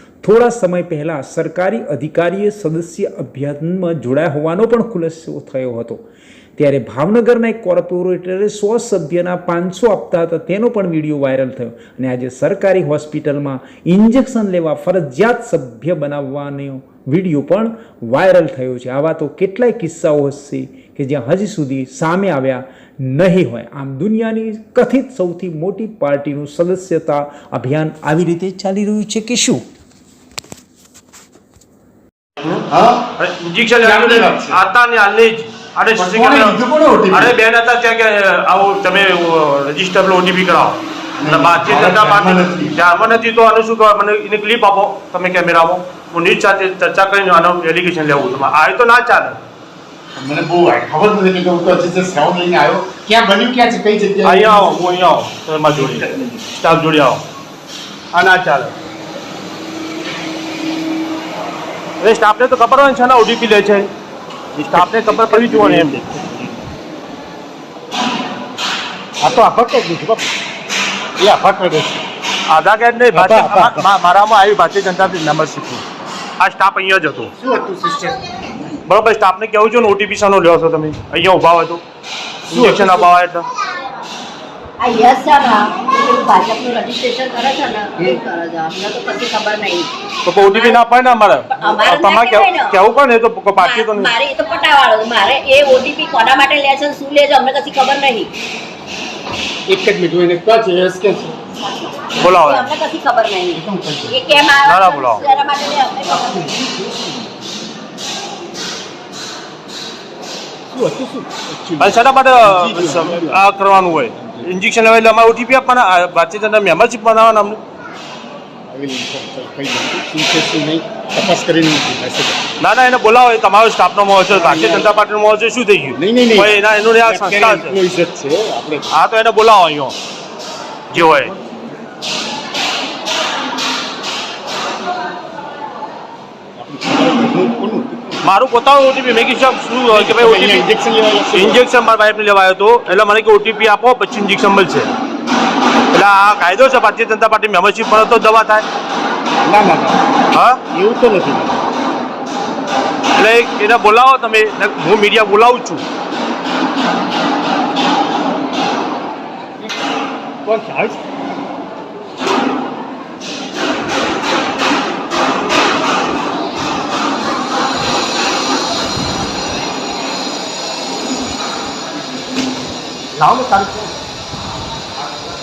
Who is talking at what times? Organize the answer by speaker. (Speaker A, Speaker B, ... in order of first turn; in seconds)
Speaker A: 0.2-6.0, 6.6-29.6
Speaker B: 32.7-33.1, 33.8-34.6, 36.0-37.4, 41.2-42.8, 50.1-54.8, 55.8-56.4, 64.7-66.7, 69.2-70.3, 71.2-72.0, 73.1-73.8, 77.4-78.7, 82.5-83.1, 99.7-101.4, 103.5-104.2, 106.1-107.3, 110.7-113.5, 114.2-114.4, 118.7-122.4, 124.3-124.9, 126.0-128.9, 136.6-138.3, 139.9-141.6, 149.4-150.1, 150.7-151.6, 160.5-160.9
Speaker C: 33.2-49.4, 54.2-57.2, 58.1-58.7, 62.0-63.9, 64.6-66.0, 72.5-75.8, 76.4-77.3, 78.9-81.8, 82.5-83.5, 90.3-94.1, 102.2-102.7, 104.7-105.2, 111.8-117.6, 122.6-127.8, 128.9-130.0, 130.9-131.3, 138.2-140.7, 141.3-144.9, 145.9-148.7, 150.3-150.6, 153.2-155.8, 173.1-173.9
Speaker D: 84.8-90.8, 91.5-92.8, 93.6-98.3, 101.7-106.6